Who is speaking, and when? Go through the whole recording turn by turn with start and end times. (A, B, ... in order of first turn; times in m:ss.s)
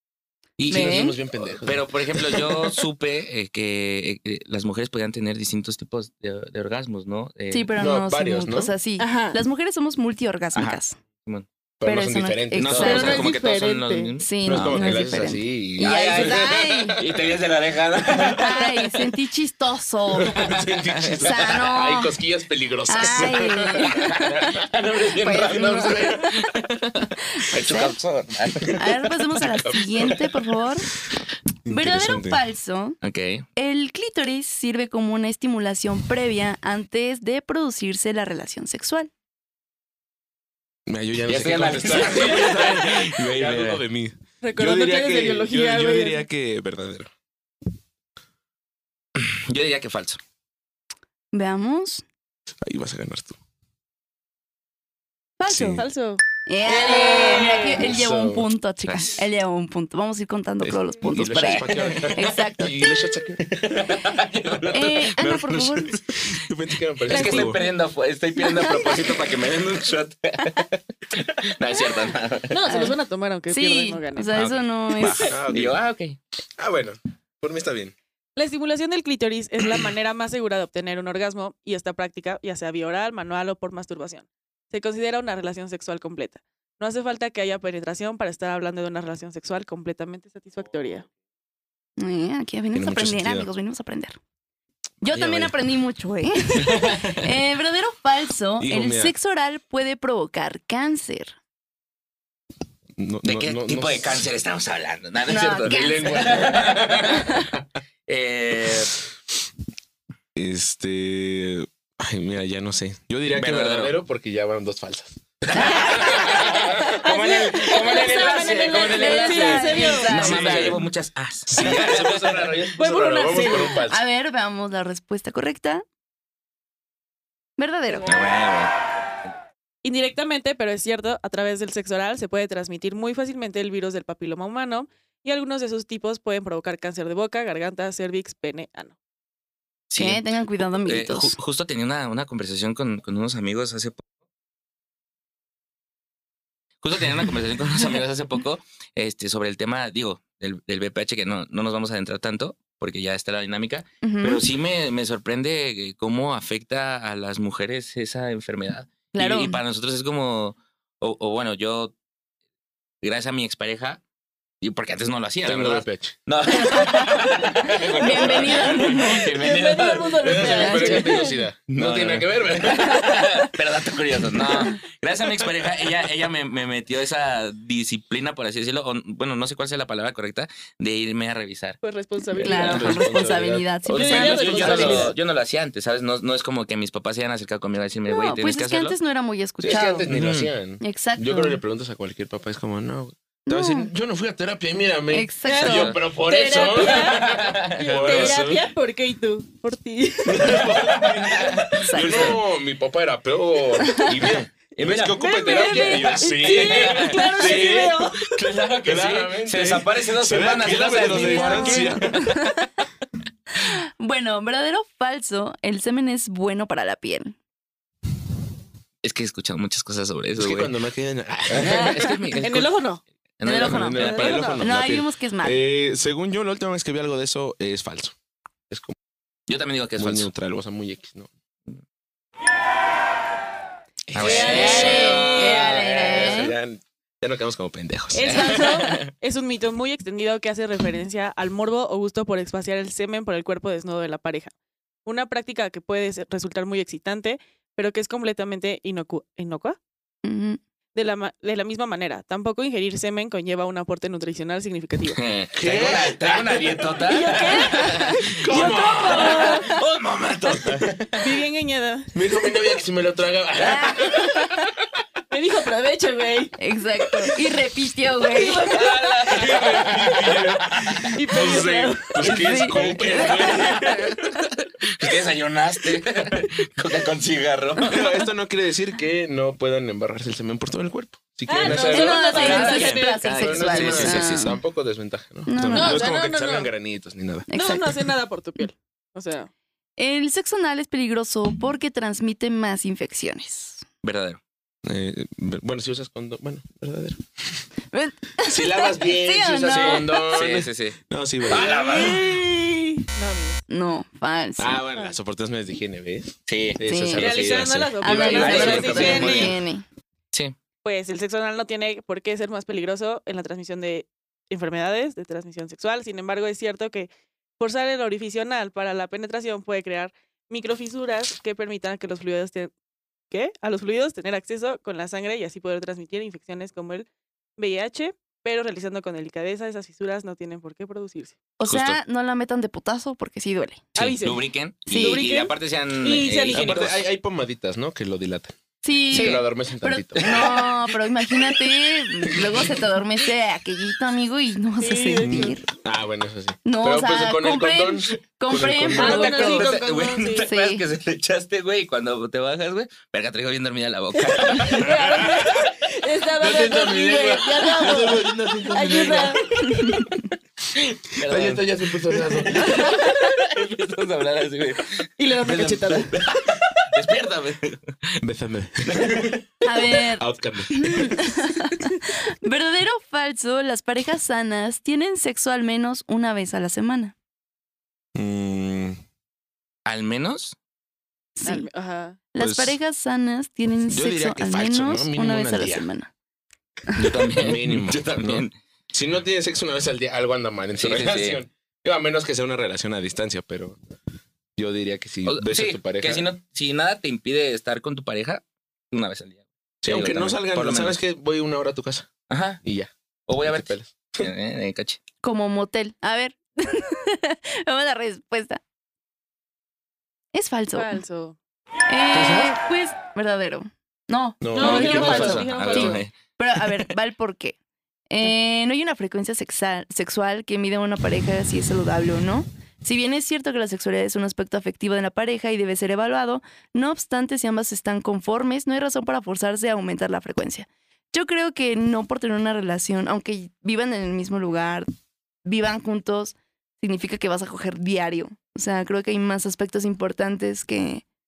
0:00.6-0:07.7 A
0:00.7-0:02.8 B
0:00.7-0:01.2 C
0:07.5-0:11.0 C
0:07.8-0:08.7 B
0:09.0-0:09.4 D
0:10.5-0:11.5 A
0:11.8-0:13.2 B
0:11.8-0:13.3 C
0:12.6-0:15.1 A
0:12.8-0:14.1 D
0:14.2-0:17.0 C
0:14.4-0:17.2 B
0:15.8-0:18.9 A
0:18.2-0:20.5 C
0:20.1-0:24.6 B
0:20.4-0:21.4 A
0:21.2-0:22.1 C
0:22.9-0:24.7 C
0:23.8-0:30.1 A
0:25.2-0:26.4 C
0:27.4-0:28.0 C
0:28.7-0:30.9 C
0:31.7-0:32.4 B
0:31.7-0:33.0 C
0:33.0-0:33.5 A
0:33.6-0:39.1 C
0:40.9-0:47.1 B
0:41.3-0:43.8 A
0:44.4-0:46.3 D
0:49.2-0:50.2 A
0:51.3-0:52.0 C
0:52.6-0:53.4 B
0:55.4-0:55.9 C
0:55.5-0:55.9 B
0:55.8-0:57.8 D
0:56.5-1:02.9 C
0:57.8-0:58.5 B
0:58.9-0:59.2 A
1:00.6-1:03.8 B
1:01.4-1:02.2 A
1:03.6-1:06.2 A
1:04.6-1:07.6 B
1:04.7-1:06.0 C
1:07.0-1:12.6 A
1:07.1-1:07.7 D
1:08.4-1:09.2 C
1:12.5-1:14.3 D
1:12.7-1:13.0 C
1:13.5-1:15.4 C
1:14.3-1:16.2 A
1:15.2-1:15.8 B
1:16.6-1:18.0 B
1:18.4-1:31.1 D
1:32.0-1:34.2 C
1:32.7-1:33.5 B
1:35.0-1:41.4 C
1:35.1-1:35.5 B
1:38.6-1:39.2 B
1:43.0-1:44.3 B
1:43.2-1:47.5 A
1:45.3-1:46.5 C
1:45.7-1:47.4 B
1:47.0-1:47.5 C
1:48.1-1:49.0 A
1:50.4-1:56.6 B
1:53.3-1:53.9 A
1:55.5-2:02.6 A
1:55.6-1:56.0 C
1:56.8-2:00.6 D
1:58.6-2:00.8 C
2:00.1-2:00.8 B
2:01.5-2:04.0 B
2:02.8-2:03.8 D
2:03.4-2:05.8 C
2:07.6-2:08.2 C
2:08.1-2:08.7 A
2:09.8-2:19.0 D
2:19.9-2:20.2 A
2:20.0-2:21.4 C
2:20.8-2:24.0 A
2:26.8-2:41.9 A
2:34.0-2:34.4 C
2:39.1-2:39.6 C
2:43.0-2:44.0 A
2:44.6-2:50.8 A
2:45.4-2:46.2 B
2:47.7-2:49.4 C
2:48.4-2:51.4 D
2:50.2-2:53.1 B
2:50.4-2:51.1 C
2:51.7-3:01.8 A
3:01.8-3:02.9 D
3:02.4-3:05.1 C
3:02.4-3:05.1 B
3:02.4-3:03.1 A
3:03.9-3:05.1 D
3:03.9-3:09.0 A
3:08.1-3:10.1 C
3:09.6-3:18.7 B
3:10.1-3:10.5 A
3:10.8-3:11.6 C
3:13.5-3:13.9 C
3:15.1-3:15.9 C
3:15.4-3:20.6 D
3:15.6-3:16.0 A
3:16.7-3:18.4 A
3:20.2-3:28.0 B
3:20.6-3:22.4 A
3:21.8-3:22.4 C
3:23.8-3:24.2 C
3:24.2-3:25.2 A
3:25.2-3:28.4 D
3:25.4-3:26.5 C
3:25.9-3:32.2 A
3:28.8-3:32.3 B
3:31.0-3:32.7 C
3:33.6-3:37.4 C
3:39.0-3:40.7 A
3:40.4-3:42.0 B
3:41.5-3:42.7 A
3:42.4-3:43.0 D
3:43.4-3:44.6 A
3:43.4-3:45.6 C
3:43.5-3:48.2 B
3:44.0-3:44.6 D
3:48.7-3:49.0 B
3:49.5-3:50.3 A
3:50.0-3:51.3 B
3:54.1-3:58.6 B
3:54.1-3:56.4 A
3:54.2-3:56.2 D
3:54.4-3:56.6 C
3:58.1-4:04.5 D
3:58.2-3:59.0 A
4:05.0-4:09.8 D
4:10.2-4:10.6 C
4:11.0-4:15.2 D
4:15.1-4:21.2 A
4:15.5-4:17.0 B
4:17.1-4:19.7 D
4:18.3-4:19.6 B
4:20.6-4:20.9 B
4:21.2-4:22.2 D
4:22.1-4:24.5 B
4:24.0-4:24.5 D
4:25.3-4:26.6 D
4:26.6-4:28.8 C
4:28.3-4:29.2 D
4:28.4-4:31.1 A
4:29.3-4:34.2 B
4:31.1-4:32.4 D
4:32.2-4:33.4 C
4:32.7-4:38.0 A
4:37.8-4:47.5 B
4:41.5-4:43.3 D
4:41.6-4:44.6 C
4:41.6-4:44.6 A
4:45.5-4:46.1 C
4:45.7-4:46.7 D
4:47.5-4:48.0 C
4:47.5-4:49.5 D
4:50.0-4:53.8 C
4:54.0-4:54.4 A
4:54.8-4:57.6 B
4:57.9-5:00.4 C
4:58.4-5:02.2 B
4:59.6-5:02.4 A
5:01.5-5:03.6 D
5:03.7-5:04.8 C
5:04.6-5:09.6 B
5:06.5-5:06.8 A
5:06.8-5:07.5 C
5:07.1-5:09.6 D
5:08.0-5:09.8 C
5:08.1-5:09.6 A
5:10.8-5:22.7 D
5:23.3-5:31.4 D
5:31.6-5:33.9 C
5:31.7-5:32.0 B
5:34.0-5:36.9 D
5:34.0-5:37.0 A
5:34.9-5:35.3 C
5:36.5-5:38.6 B
5:38.8-5:45.6 C
5:39.1-5:39.4 A
5:39.1-5:40.4 B
5:40.2-5:40.8 A
5:44.8-5:45.6 D
5:45.2-5:49.5 B
5:46.6-5:49.7 C
5:48.9-5:55.2 A
5:48.9-5:50.5 D
5:50.4-5:50.8 C
5:54.2-5:59.4 D
5:56.4-5:59.4 B
5:59.8-6:00.0 C
6:00.8-6:08.2 A
6:01.2-6:02.8 B
6:02.6-6:03.3 D
6:05.2-6:06.2 D
6:08.2-6:09.3 B
6:08.8-6:09.4 A
6:09.6-6:17.1 C
6:10.2-6:11.2 B
6:18.2-6:19.0 B
6:19.9-6:20.6 A
6:21.4-6:21.7 C
6:21.4-6:22.2 D
6:22.3-6:26.1 C
6:22.4-6:22.8 B
6:23.9-6:25.9 B
6:27.0-6:28.5 A
6:27.2-6:33.8 B
6:30.8-6:31.4 A
6:34.6-6:36.3 B
6:35.3-6:41.0 A
6:39.8-6:42.1 B
6:42.3-6:42.6 A
6:42.6-6:42.9 B
6:43.3-6:45.0 A
6:43.4-6:44.3 B
6:45.2-6:48.6 C
6:50.3-6:51.0 C
6:50.7-6:51.4 D
6:51.9-6:57.6 C
6:54.4-6:55.8 B
6:54.5-6:56.0 D
6:54.6-6:56.9 A
6:58.1-7:14.9 C
7:15.4-7:21.0 C